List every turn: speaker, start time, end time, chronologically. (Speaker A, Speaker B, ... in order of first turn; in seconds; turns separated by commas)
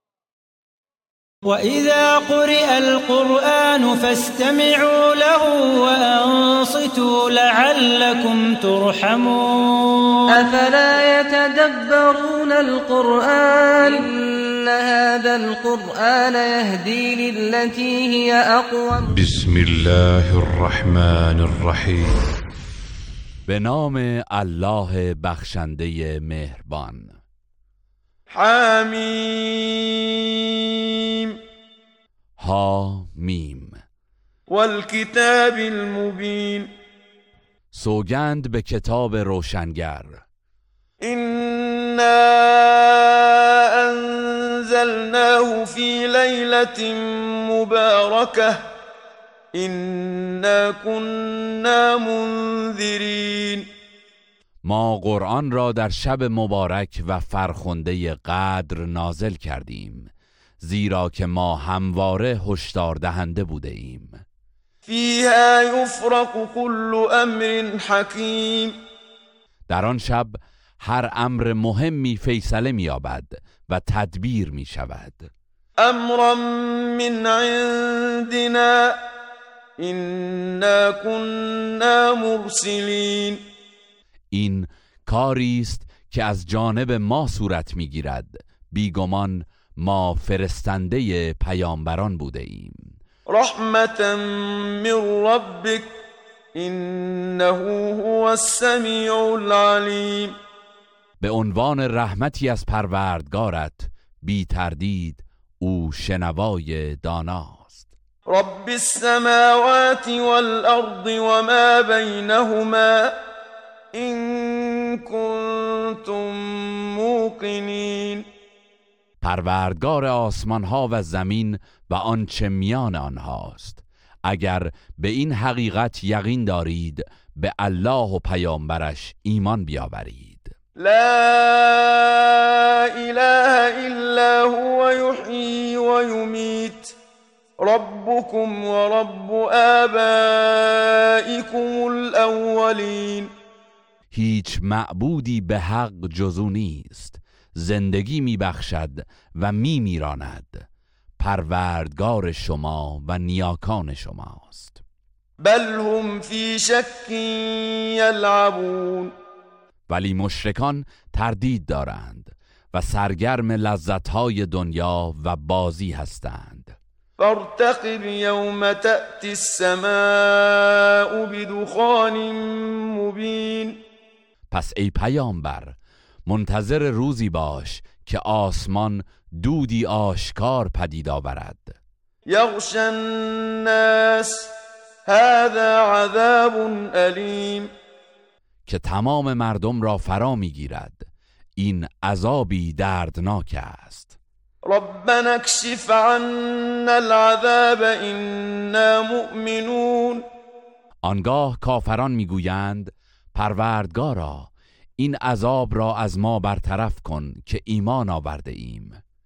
Speaker A: 1.4-10.5, Speaker B: 10.3-19.3, Speaker C: 19.2-22.1, Speaker D: 23.5-27.1, Speaker E: 28.3-31.3, Speaker D: 32.4-33.8, Speaker E: 34.5-36.7, Speaker D: 37.7-40.2, Speaker E: 41.0-48.6, Speaker E: 49.5-53.6, Speaker D: 54.6-60.1, Speaker D: 60.6-64.2, Speaker E: 64.8-68.7, Speaker D: 69.7-75.3, Speaker E: 75.8-79.0, Speaker E: 79.8-83.4, Speaker D: 84.3-92.9, Speaker E: 93.3-95.9, Speaker E: 96.5-100.3, Speaker D: 101.2-107.9, Speaker E: 108.3-113.1, Speaker E: 113.9-118.2, Speaker D: 119.2-130.5, Speaker E: 130.8-136.9, Speaker E: 137.6-143.3, Speaker D: 144.1-150.7, Speaker D: 151.2-154.8, Speaker E: 155.4-159.1, Speaker D: 159.9-166.8, Speaker E: 167.2-173.8, Speaker D: 174.5-181.8, Speaker E: 182.3-184.5, Speaker E: 185.1-187.7, Speaker D: 188.7-191.1, Speaker D: 191.6-194.1, Speaker E: 194.7-200.2, Speaker D: 201.0-209.0